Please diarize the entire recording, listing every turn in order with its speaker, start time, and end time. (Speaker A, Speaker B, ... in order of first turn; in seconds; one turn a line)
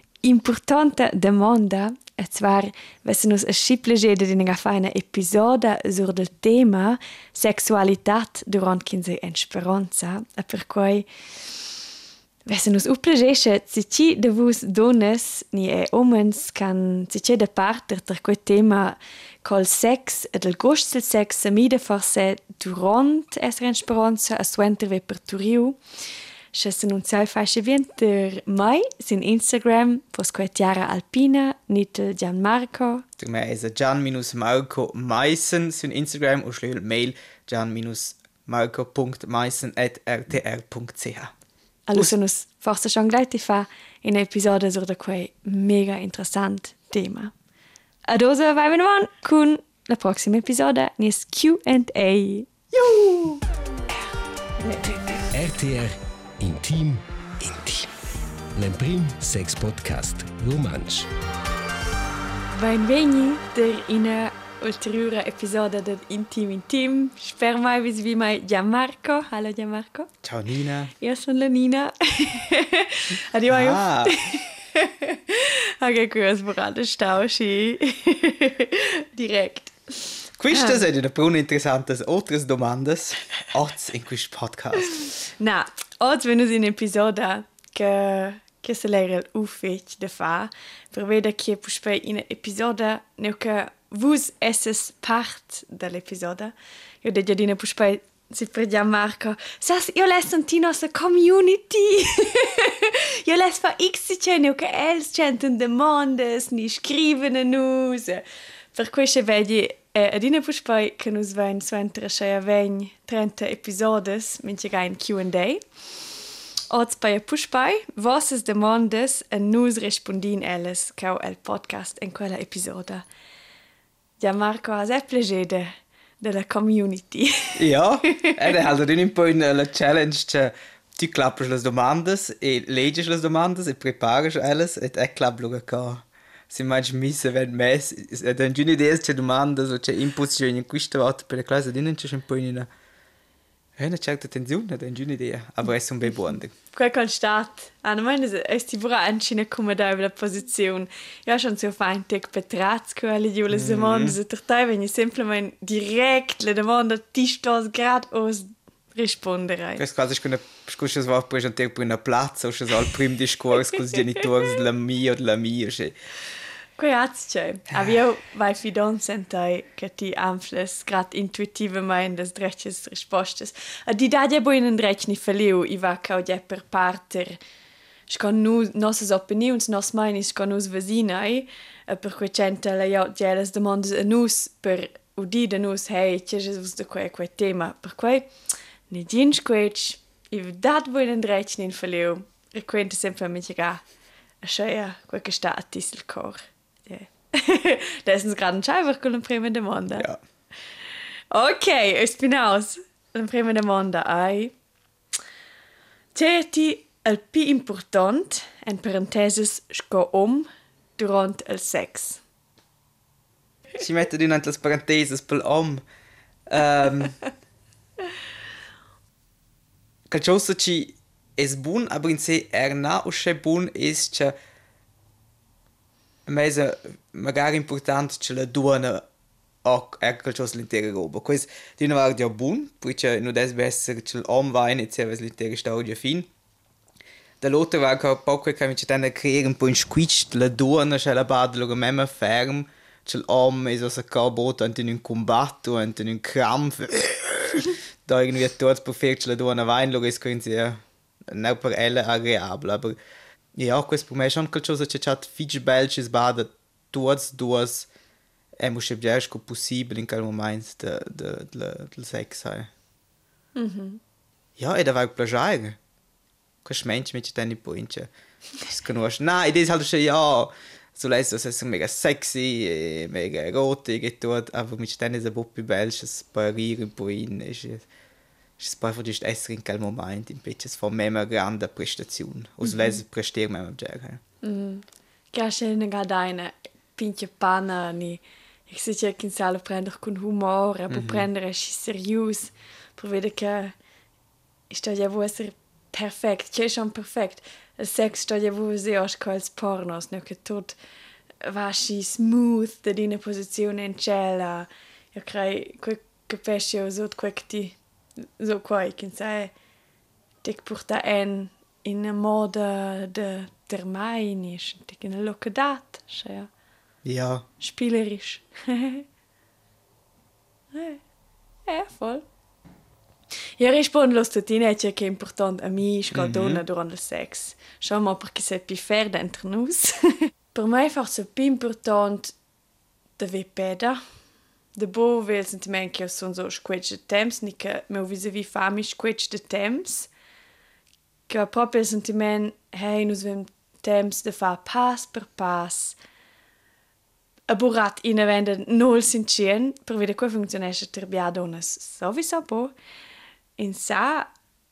Speaker A: 0.2-11.1
Speaker A: 12.5-25.8
Speaker A: 26.5-33.0
Speaker B: 33.2-41.3
Speaker A: 41.9-47.3
Speaker A: 48.1-53.4
Speaker A: 54.6-55.3
Speaker C: 54.8-57.9
Speaker C: 58.5-61.1
Speaker A: 62.6-70.1
Speaker B: 70.2-70.9
Speaker A: 71.0-80.8
Speaker B: 73.5-74.2
Speaker B: 80.4-84.9
Speaker A: 84.9-115.6
Speaker A: 116.7-123.0
Speaker A: 124.2-128.3
Speaker B: 127.6-142.7
Speaker B: 143.8-146.5
Speaker A: 146.7-159.8
Speaker B: 153.5-154.2
Speaker B: 159.8-165.9
Speaker A: 166.8-177.4
Speaker B: 167.7-168.0
Speaker A: 178.1-188.3
Speaker A: 188.9-193.8
Speaker A: 194.4-200.1
Speaker A: 201.3-204.5
Speaker A: 206.1-212.2
Speaker B: 213.8-215.8
Speaker B: 216.5-217.2
Speaker B: 220.1-224.3
Speaker B: 226.2-229.1
Speaker B: 229.6-236.3
Speaker B: 237.4-253.0
Speaker B: 253.5-257.9
Speaker B: 258.6-262.7
Speaker A: 263.6-264.0
Speaker B: 264.6-265.8
Speaker B: 266.6-268.1
Speaker B: 268.7-277.9
Speaker B: 278.6-284.2
Speaker A: 282.6-283.0
Speaker A: 284.4-293.8
Speaker B: 290.9-291.3
Speaker A: 294.7-300.8
Speaker A: 301.4-309.5
Speaker A: 310.4-316.5
Speaker B: 317.0-317.4
Speaker A: 317.6-319.1
Speaker A: 320.7-321.0
Speaker A: 321.7-322.2
Speaker A: 323.6-332.3
Speaker B: 326.1-326.6
Speaker A: 333.2-334.0
Speaker A: 334.8-340.1
Speaker A: 341.3-346.0
Speaker A: 347.5-352.7
Speaker A: 353.6-354.3